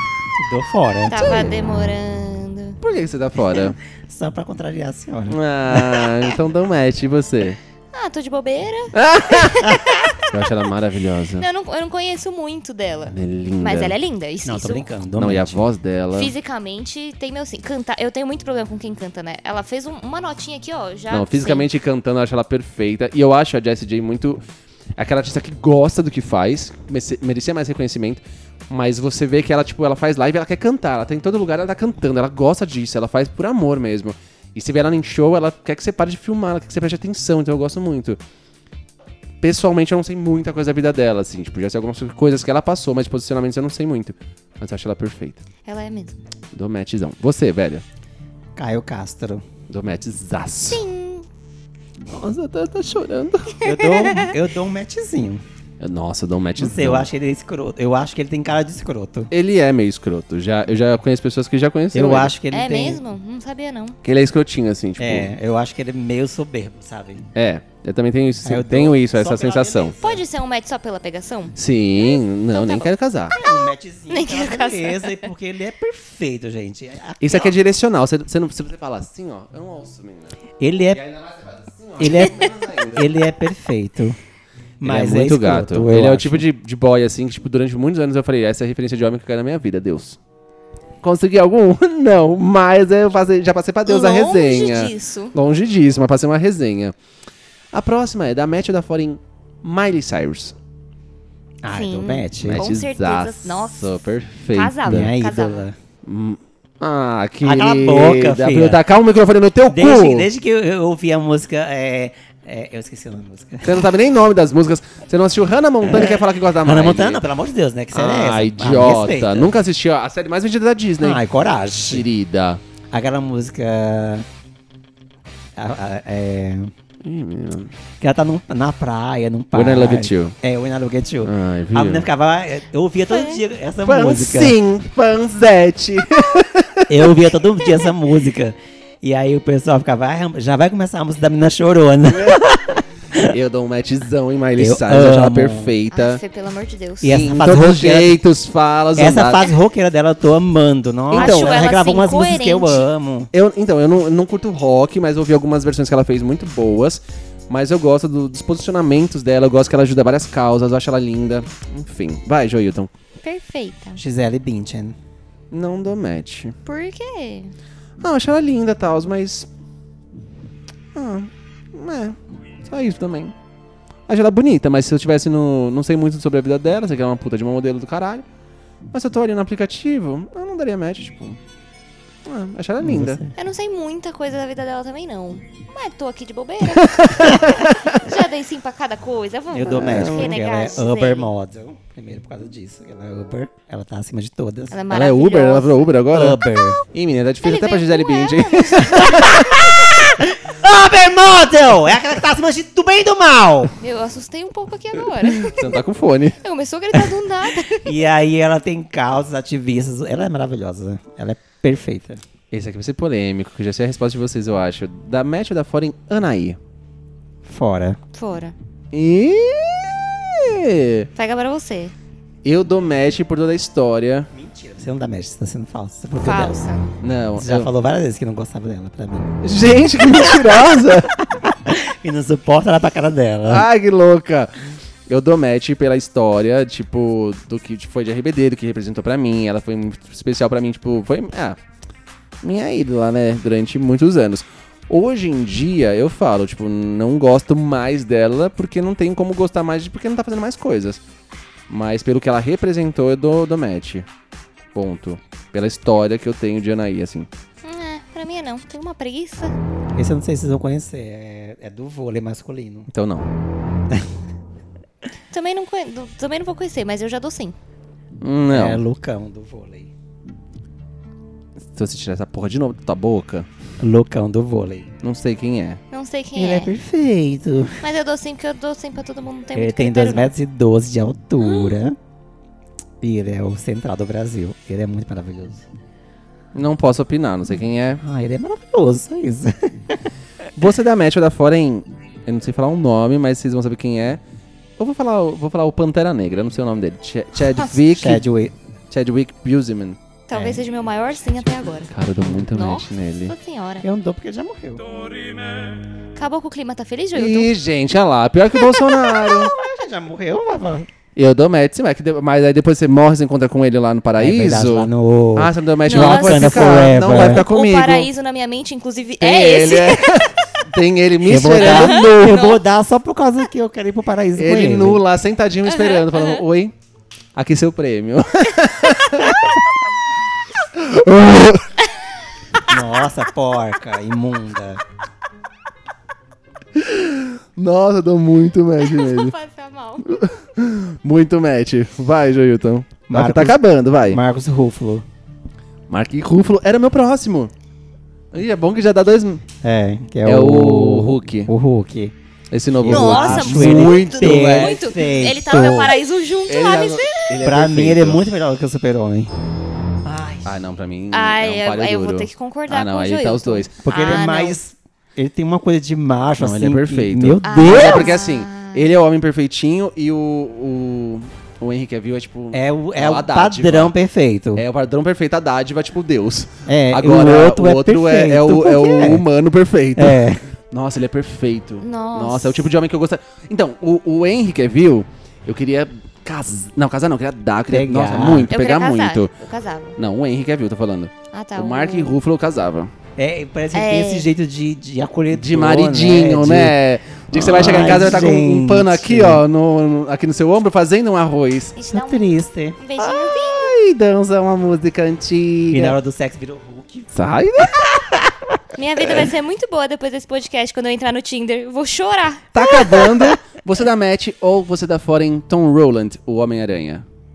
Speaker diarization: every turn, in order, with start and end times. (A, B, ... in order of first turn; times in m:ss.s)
0:00.4-0:01.5 A
0:01.1-0:02.8 B
0:01.1-0:01.5 C
0:02.8-0:03.8 C
0:03.6-0:06.3 A
0:05.3-0:07.6 C
0:07.9-0:10.3 B
0:08.9-0:11.4 C
0:11.4-0:14.9 B
0:13.1-0:13.9 C
0:14.4-0:15.6 A
0:15.2-0:16.3 C
0:16.1-0:21.7 B
0:21.1-0:24.4 C
0:25.0-0:38.2 C
0:39.4-0:45.4 C
0:45.6-0:46.2 B
0:46.5-0:47.8 C
0:48.6-0:49.4 A
0:49.7-0:50.8 C
0:50.7-0:51.2 B
0:52.1-0:53.6 C
0:53.6-0:54.3 B
0:53.6-0:55.4 A
0:55.8-0:57.1 C
0:56.6-0:59.3 A
0:59.3-1:02.3 C
1:01.9-1:03.0 A
1:02.5-1:04.0 B
1:04.0-1:05.3 C
1:05.0-1:07.2 A
1:07.3-1:09.9 C
1:08.4-1:10.2 A
1:10.0-1:11.5 B
1:11.6-1:13.4 C
1:12.5-1:13.6 B
1:13.4-1:17.6 A
1:14.1-1:15.3 B
1:17.2-1:20.4 C
1:20.6-1:21.0 A
1:20.9-1:23.0 C
1:22.0-1:24.2 A
1:24.8-1:26.4 A
1:24.8-1:30.2 C
1:31.0-1:36.9 C
1:33.8-1:35.3 B
1:37.7-1:40.5 C
1:41.6-1:42.7 A
1:41.7-1:45.7 B
1:42.4-1:45.1 C
1:44.8-1:45.8 A
1:46.0-1:50.3 C
1:47.4-1:48.8 A
1:49.7-1:53.9 A
1:53.6-1:57.2 C
1:55.9-1:59.5 A
1:57.9-2:01.2 C
2:01.0-2:02.0 A
2:01.9-2:02.6 C
2:02.9-2:04.2 A
2:05.6-2:06.7 A
2:07.0-2:07.7 C
2:08.0-2:14.6 A
2:09.5-2:10.3 C
2:11.2-2:12.1 C
2:13.1-2:13.4 B
2:13.8-2:17.0 C
2:16.9-2:23.3 A
2:22.1-2:22.5 C
2:23.2-2:26.2 C
2:24.6-2:25.7 A
2:25.9-2:27.2 B
2:27.0-2:28.1 A
2:27.1-2:29.4 C
2:29.0-2:33.3 A
2:31.1-2:31.6 C
2:31.1-2:32.9 B
2:33.3-2:42.9 C
2:43.2-2:44.0 B
2:44.0-2:45.0 A
2:45.5-2:46.6 C
2:46.6-2:47.5 B
2:48.0-2:49.5 C
2:50.9-2:53.3 C
2:54.1-2:58.2 C
2:58.9-3:01.4 C
3:02.2-3:03.2 C
3:02.8-3:03.3 A
3:03.4-3:11.3 B
3:06.7-3:08.0 C
3:09.5-3:14.8 A
3:09.7-3:10.4 C
3:14.7-3:15.9 B
3:14.9-3:16.4 C
3:16.1-3:16.8 A
3:16.9-3:19.6 C
3:17.4-3:19.4 B
3:18.8-3:23.7 A
3:23.8-3:25.8 B
3:25.4-3:26.4 C
3:26.4-3:28.0 B
3:27.8-3:32.2 A
3:32.5-3:36.6 C
3:37.4-3:38.0 A
3:38.1-3:38.5 B
3:38.9-3:41.1 C
3:41.2-3:41.9 B
3:42.4-3:44.3 C
3:44.3-3:46.6 A
3:46.2-3:46.9 B
3:47.0-3:47.7 C
3:47.4-3:49.4 A
3:49.4-3:51.1 C
3:50.2-3:53.7 A
3:53.5-3:54.5 C
3:55.1-4:01.6 C
4:02.4-4:11.0 C
4:11.7-4:14.1 C
4:14.7-4:17.3 C
4:17.6-4:19.5 B
4:20.0-4:22.9 A
4:22.9-4:23.3 C
4:25.3-4:27.6 B
4:28.2-4:28.8 C
4:28.5-4:29.9 A
4:31.6-4:33.5 C
4:33.8-4:34.9 A
4:35.0-4:35.8 C
4:35.9-4:36.7 B
4:36.3-4:37.9 A
4:37.8-4:40.3 B
4:39.5-4:42.0 A
4:41.4-4:41.8 B
4:43.0-4:45.6 A
4:46.5-4:48.0 C
4:48.0-4:50.0 A
4:50.6-4:54.2 C
4:54.8-4:58.2 C
4:57.8-4:58.5 A
4:58.9-5:00.0 C
5:00.3-5:03.8 B
5:00.3-5:00.6 A
5:01.9-5:03.3 C
5:03.8-5:04.9 A
5:06.2-5:07.5 B
5:07.1-5:09.5 C
5:09.1-5:10.9 A
5:11.2-5:18.1 C
5:14.2-5:17.4 A
5:15.9-5:20.4 B
5:19.2-5:22.2 C
5:21.2-5:25.0 A
5:21.5-5:22.6 B
5:24.4-5:26.7 C
5:25.7-5:26.4 B
5:27.3-5:29.5 C
5:30.7-5:31.7 C
5:32.7-5:34.8 A
5:36.7-5:39.3 C
5:38.8-5:40.3 B
5:40.0-5:44.2 C
5:43.1-5:45.0 A
5:45.9-5:47.5 C
5:48.3-5:49.4 C
5:49.6-5:52.1 A
5:50.2-5:51.5 C
5:52.5-5:54.9 C
5:52.8-5:56.0 A
5:52.9-5:57.3 B
5:56.5-5:58.2 C
5:57.4-5:59.3 A
6:00.0-6:00.5 A
6:00.4-6:03.8 C
6:01.1-6:04.6 B
6:03.8-6:08.1 A
6:06.4-6:13.9 C
6:07.4-6:08.9 B
6:12.5-6:14.6 A
6:14.5-6:29.3 C
6:16.6-6:19.2 A
6:20.0-6:20.4 A
6:21.8-6:22.7 B
6:27.7-6:28.5 A
6:28.5-6:30.0 B
6:30.0-6:32.9 C
6:31.3-6:32.2 B
6:33.2-6:36.8 A
6:33.7-6:34.3 B
6:35.3-6:41.8 C
6:37.3-6:39.4 A
6:41.8-6:42.2 B
6:41.9-6:42.8 A
6:42.8-6:43.7 B
6:43.0-6:46.0 C
6:45.7-6:47.1 A
6:47.1-6:48.3 C
6:47.7-6:48.1 A
6:48.7-6:53.4 B
6:52.5-6:57.0 C